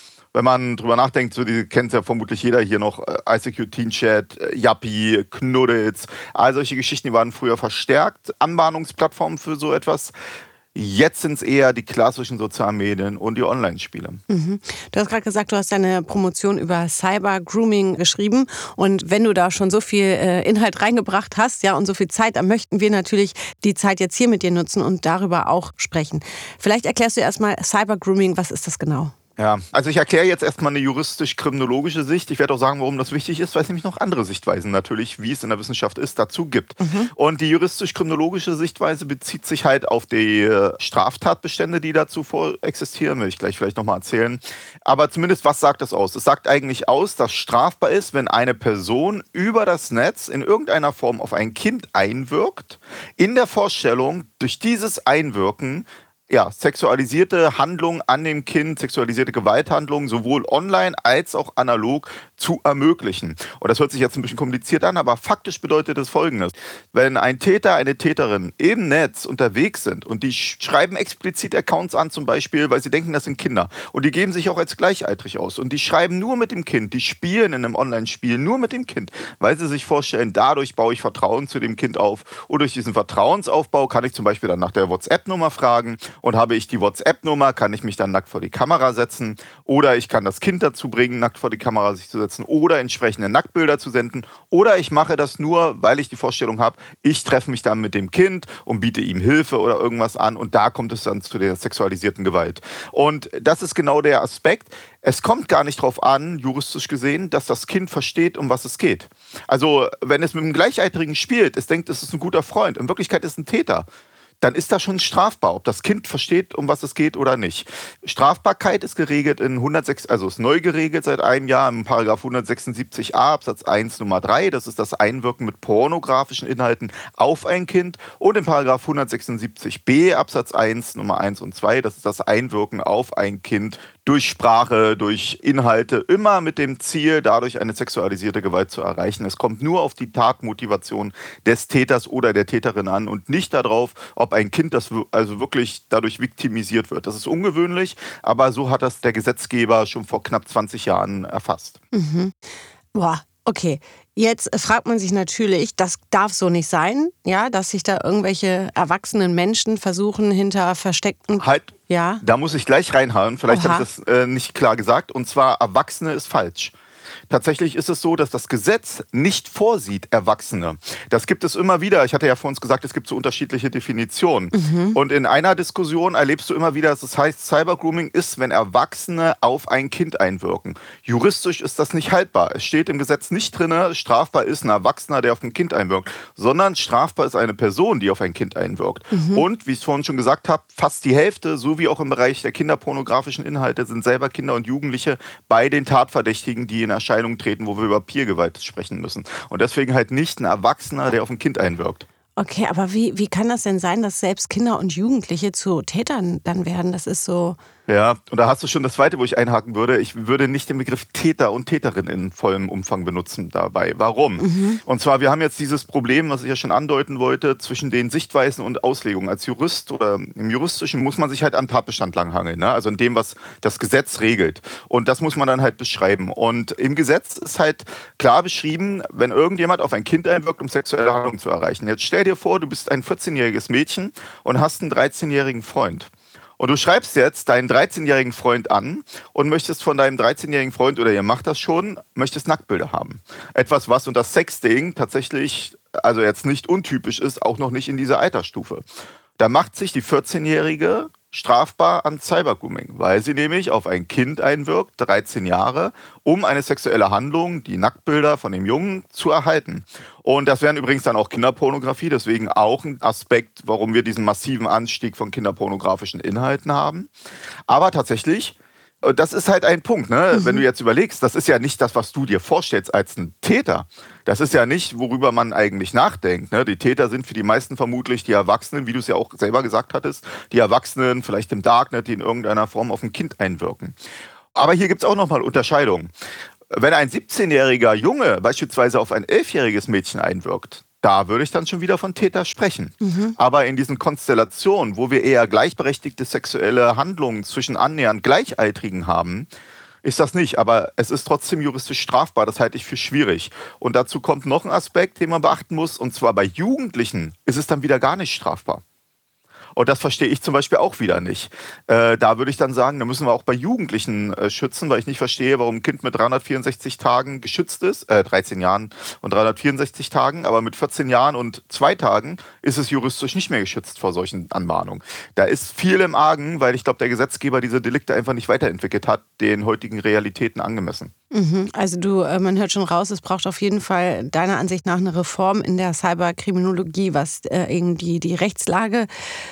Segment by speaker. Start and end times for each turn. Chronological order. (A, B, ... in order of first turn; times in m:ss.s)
0:00.3-0:10.1 A
0:10.8-0:14.2 A
0:14.3-0:29.1 B
0:29.4-1:53.9 A
0:36.8-0:37.1 B
1:54.4-2:31.8 A
2:31.9-2:32.3 B
2:32.9-2:42.2 B
2:41.4-2:46.7 A
2:43.5-2:43.9 B
2:47.3-3:22.1 A
2:54.5-2:55.0 B
3:09.1-3:09.5 B
3:22.4-3:27.6 B
3:27.9-4:08.8 A
3:34.4-3:34.8 B
4:09.4-4:27.1 A
4:27.7-4:44.0 A
4:30.3-4:30.6 B
4:44.6-4:46.1 A
4:46.7-4:59.5 A
4:53.0-4:53.4 B
5:00.0-5:08.8 A
5:09.8-5:31.1 A
5:31.3-5:39.1 B